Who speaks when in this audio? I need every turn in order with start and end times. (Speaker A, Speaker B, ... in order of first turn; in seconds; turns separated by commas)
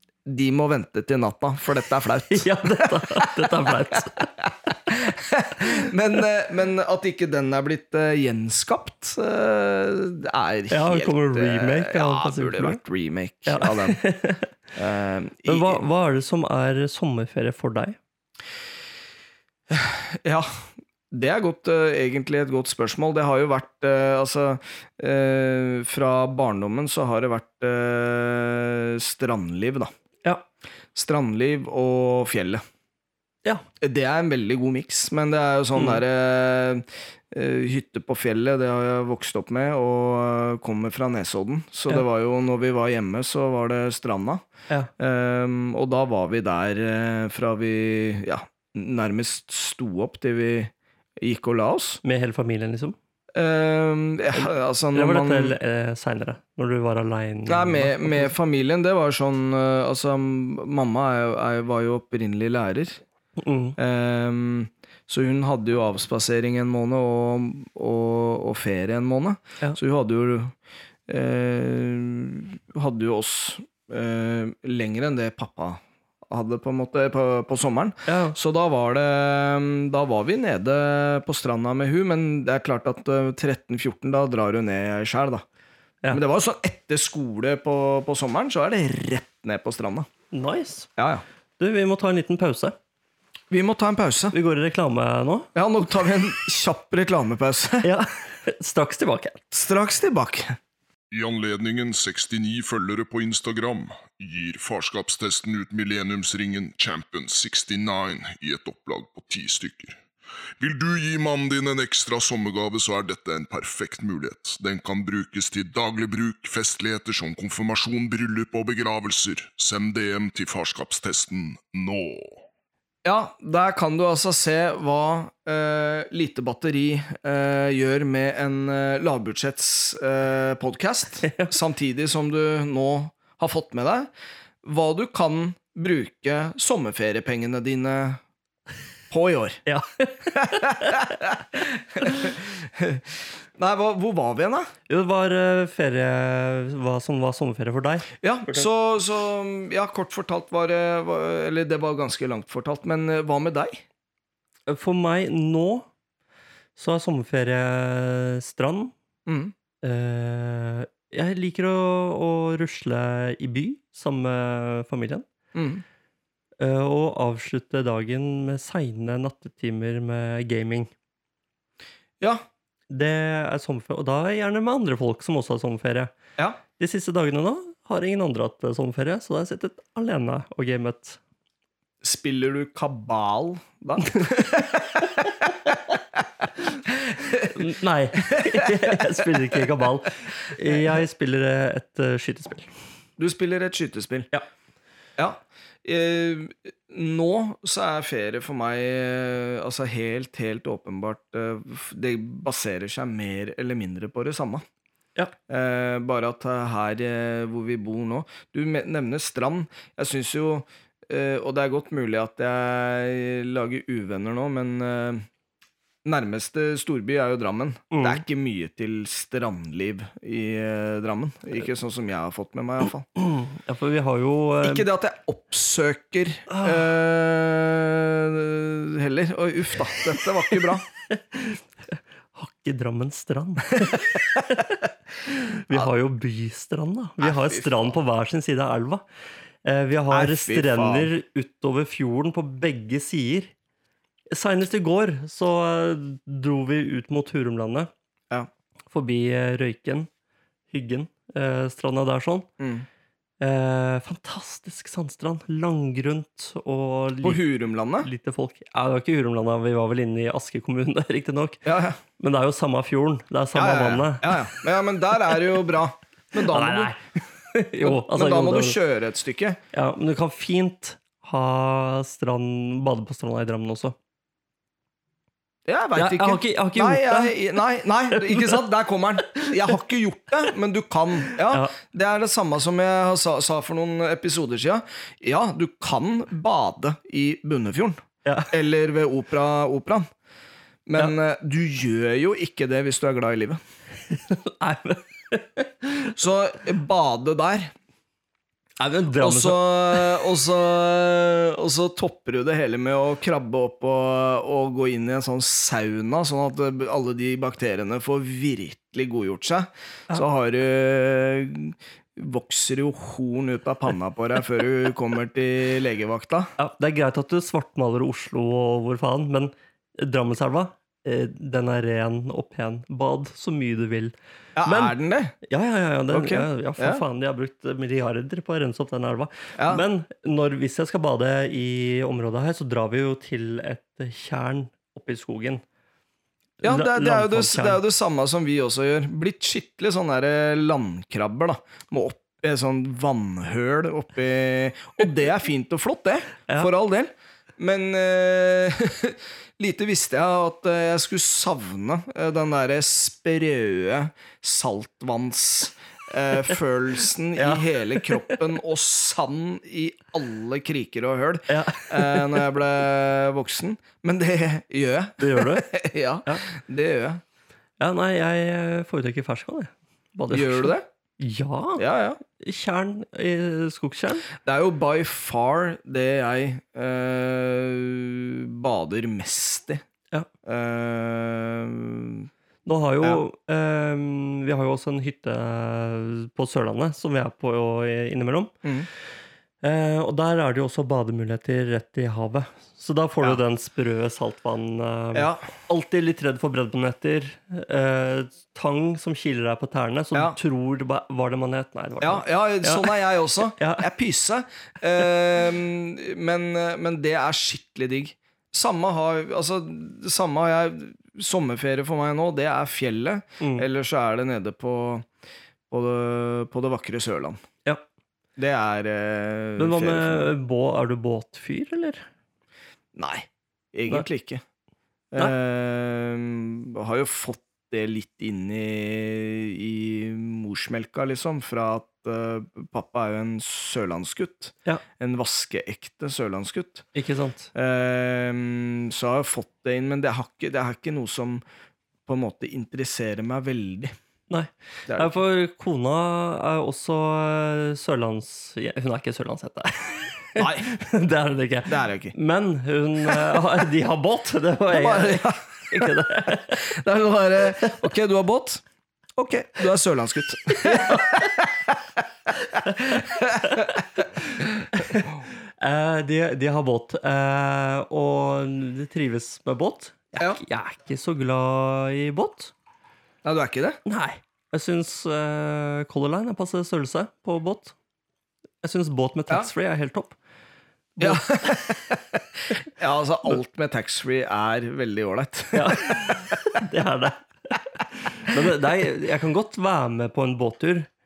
Speaker A: 0.3-3.5, Speaker B: 2.3-4.3, Speaker A: 4.7-14.0, Speaker B: 10.7-12.8, Speaker B: 13.5-14.5, Speaker A: 14.8-15.8, Speaker B: 15.5-18.0, Speaker A: 19.7-29.9, Speaker A: 30.9-32.6, Speaker A: 33.8-44.5, Speaker B: 35.8-36.0, Speaker A: 45.0-52.0, Speaker B: 52.0-53.0, Speaker A: 53.3-55.6, Speaker B: 54.3-58.3, Speaker A: 57.5-63.0, Speaker B: 63.4-63.8, Speaker A: 63.8-70.5, Speaker A: 71.1-85.4, Speaker B: 78.1-78.4, Speaker A: 86.1-90.1, Speaker B: 90.3-90.9, Speaker A: 91.0-91.2, Speaker B: 91.6-92.8, Speaker A: 93.5-94.3, Speaker B: 94.3-95.5, Speaker A: 95.5-97.9, Speaker B: 97.8-99.4, Speaker A: 99.5-100.6, Speaker C: 101.1-110.0, Speaker C: 110.6-122.4, Speaker A: 123.0-134.1, Speaker B: 131.2-131.5, Speaker A: 134.6-138.2, Speaker A: 139.1-139.6, Speaker B: 139.7-141.2, Speaker A: 140.4-144.7, Speaker B: 142.0-142.3, Speaker B: 144.9-148.7, Speaker A: 148.2-153.8, Speaker B: 154.7-155.9, Speaker B: 156.8-158.9, Speaker A: 159.3-159.5, Speaker B: 159.8-165.3, Speaker A: 165.5-165.8, Speaker B: 166.6-170.9, Speaker B: 172.9-176.2, Speaker B: 176.8-181.2, Speaker A: 182.0-186.2, Speaker A: 186.9-187.5, Speaker B: 187.5-192.7, Speaker A: 188.3-189.0, Speaker A: 193.2-194.3, Speaker A: 195.2-204.6, Speaker A: 205.5-215.3, Speaker A: 216.1-223.1, Speaker B: 217.9-218.2, Speaker B: 223.2-224.9, Speaker A: 224.6-230.9, Speaker B: 226.5-226.8, Speaker B: 231.1-239.0, Speaker A: 237.2-237.8, Speaker B: 239.7-243.5, Speaker A: 240.1-241.1, Speaker B: 244.3-247.9, Speaker B: 248.9-250.1, Speaker B: 250.7-252.5, Speaker A: 252.6-252.9, Speaker B: 253.4-257.4, Speaker A: 257.2-258.1, Speaker B: 258.0-261.6, Speaker A: 261.6-262.0, Speaker B: 262.2-264.6, Speaker A: 263.6-266.9, Speaker B: 266.4-267.0, Speaker B: 267.5-268.8, Speaker A: 267.8-269.6, Speaker B: 269.7-274.0, Speaker A: 275.7-290.1, Speaker B: 276.0-277.4, Speaker B: 278.1-278.6, Speaker B: 281.5-281.8, Speaker B: 288.2-288.5, Speaker A: 290.9-293.6, Speaker B: 294.1-296.1, Speaker A: 296.1-297.7, Speaker B: 298.8-300.2, Speaker A: 299.2-316.5, Speaker B: 316.6-335.6, Speaker A: 324.6-325.3, Speaker A: 326.1-327.0, Speaker A: 329.6-329.8, Speaker B: 336.6-337.8, Speaker A: 336.6-367.2, Speaker B: 357.4-358.4, Speaker B: 361.5-362.4, Speaker B: 365.2-366.5, Speaker B: 367.8-371.8, Speaker A: 370.3-370.9, Speaker A: 371.8-372.2, Speaker B: 372.4-374.3, Speaker A: 374.4-379.8, Speaker A: 380.4-382.3, Speaker B: 382.6-388.5, Speaker B: 389.6-403.9, Speaker A: 395.1-395.5, Speaker A: 402.0-415.1, Speaker B: 413.4-413.7, Speaker A: 415.7-417.4, Speaker A: 418.4-420.3, Speaker B: 419.6-422.1, Speaker A: 422.9-424.4, Speaker A: 425.1-436.9, Speaker B: 436.9-437.5, Speaker A: 437.5-441.4, Speaker A: 442.1-443.9, Speaker B: 444.3-456.7, Speaker A: 444.9-445.2, Speaker A: 450.4-450.7, Speaker A: 451.7-452.1, Speaker A: 454.7-455.9, Speaker A: 456.5-458.6, Speaker A: 459.2-461.8, Speaker B: 460.5-461.2, Speaker A: 462.5-464.0, Speaker B: 463.0-472.5, Speaker A: 473.2-473.8, Speaker B: 473.9-477.8, Speaker B: 478.6-480.2, Speaker B: 481.0-481.6, Speaker A: 481.0-486.4, Speaker B: 485.5-490.9